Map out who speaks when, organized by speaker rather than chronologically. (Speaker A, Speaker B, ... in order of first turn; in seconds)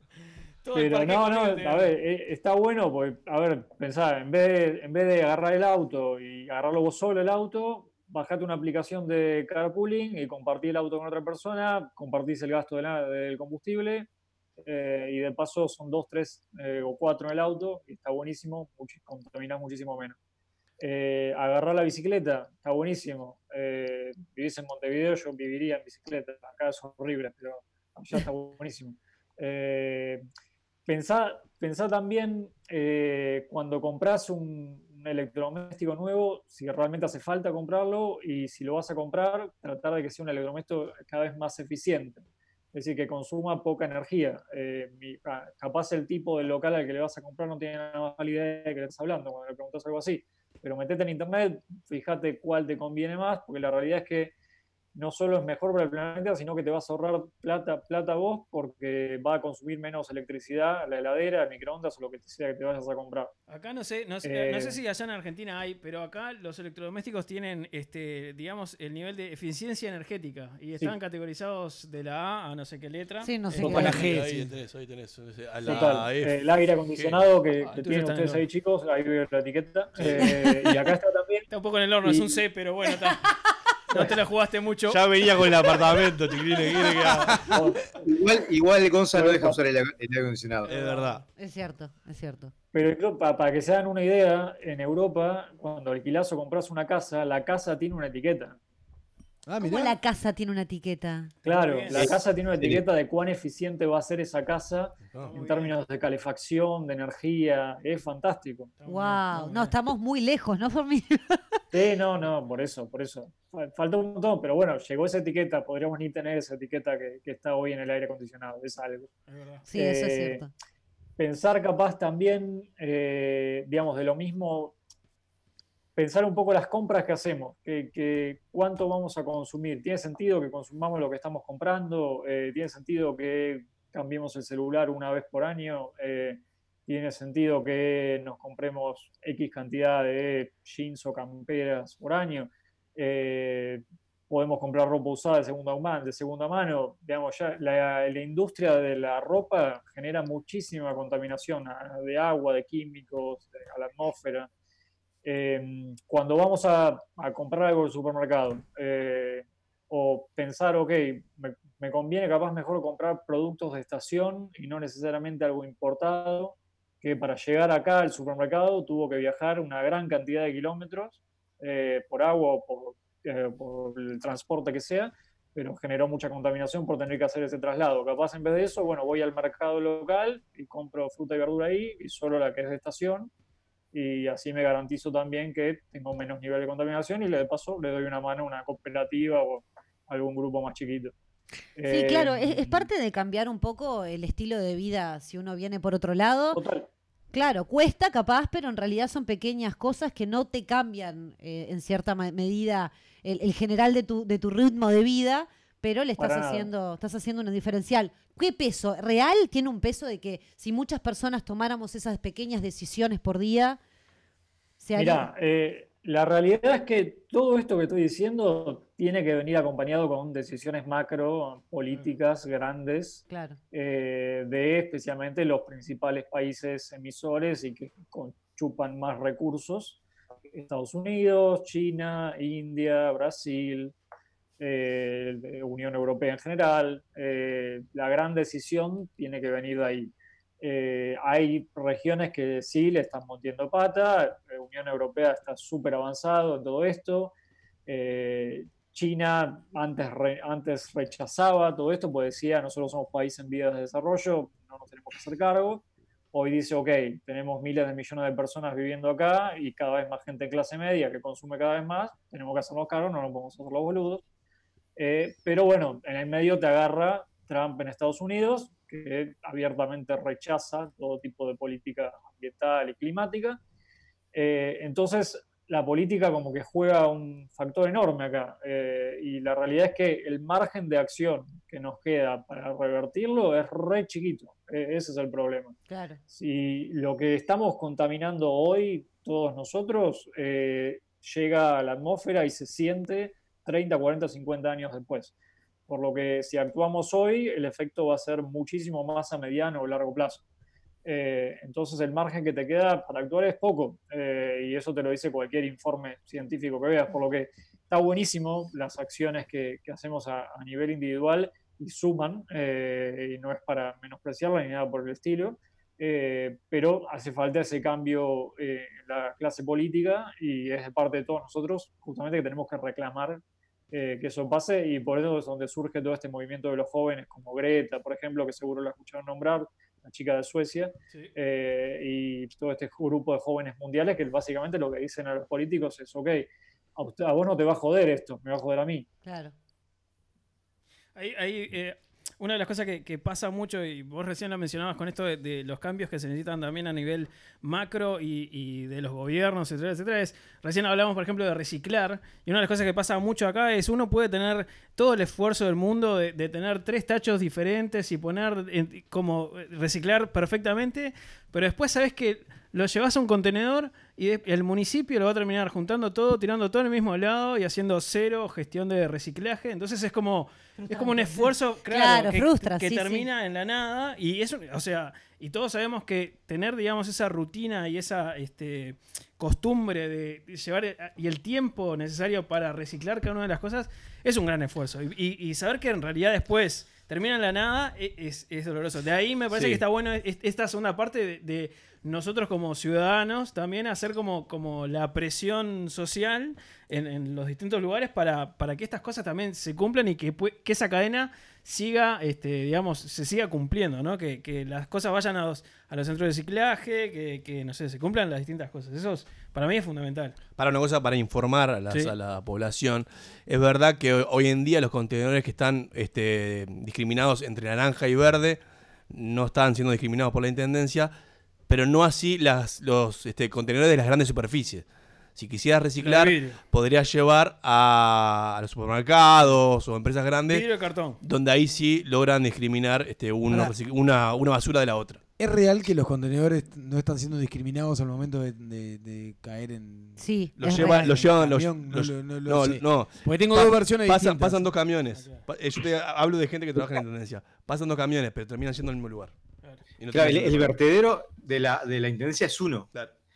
Speaker A: 0.6-1.9, 63.5-74.1, 77.6-78.4, 81.5-83.3, 83.9-85.0, 90.6-91.2, 101.4-102.2, 105.2-105.8, 108.8-109.7, 119.3-119.6, 341.1-410.4, 426.0-426.6, 430.5-431.2, 445.1-445.4
Speaker B: 0.7-14.1, 14.6-20.2, 20.8-30.2, 30.9-54.3, 54.9-63.3, 64.2-64.8, 75.6-81.5, 82.0-82.3, 87.4-87.8, 89.1-89.6, 92.7-98.6, 101.4-108.7, 111.7-119.1, 119.7-120.4, 121.2-124.8, 126.0-154.5, 155.2-183.3, 183.9-191.1, 191.8-192.9, 196.5-196.9, 206.2-206.7, 214.9-230.0, 230.5-233.9, 234.6-247.3, 247.9-264.2, 264.9-273.6, 274.3-285.8, 286.3-295.3, 295.9-300.4, 301.0-339.1
Speaker C: 73.2-74.1, 91.4-92.5, 99.6-101.3, 108.8-111.4, 119.7-120.5, 191.9-196.6, 197.3-213.8, 214.8-215.3, 223.3-223.6, 285.9-286.2, 339.2-339.5, 370.9-373.2, 433.5-433.7, 440.2-441.2
Speaker D: 73.6-74.5, 99.5-100.0, 435.4-444.7
Speaker E: 73.6-76.3, 76.9-77.2, 84.9-87.6, 90.7-91.2, 389.5-389.8, 410.6-421.1, 421.7-424.8, 425.4-430.7, 431.2-435.2, 440.6-449.3, 450.0-450.8
Speaker F: 88.0-90.7, 450.1-452.9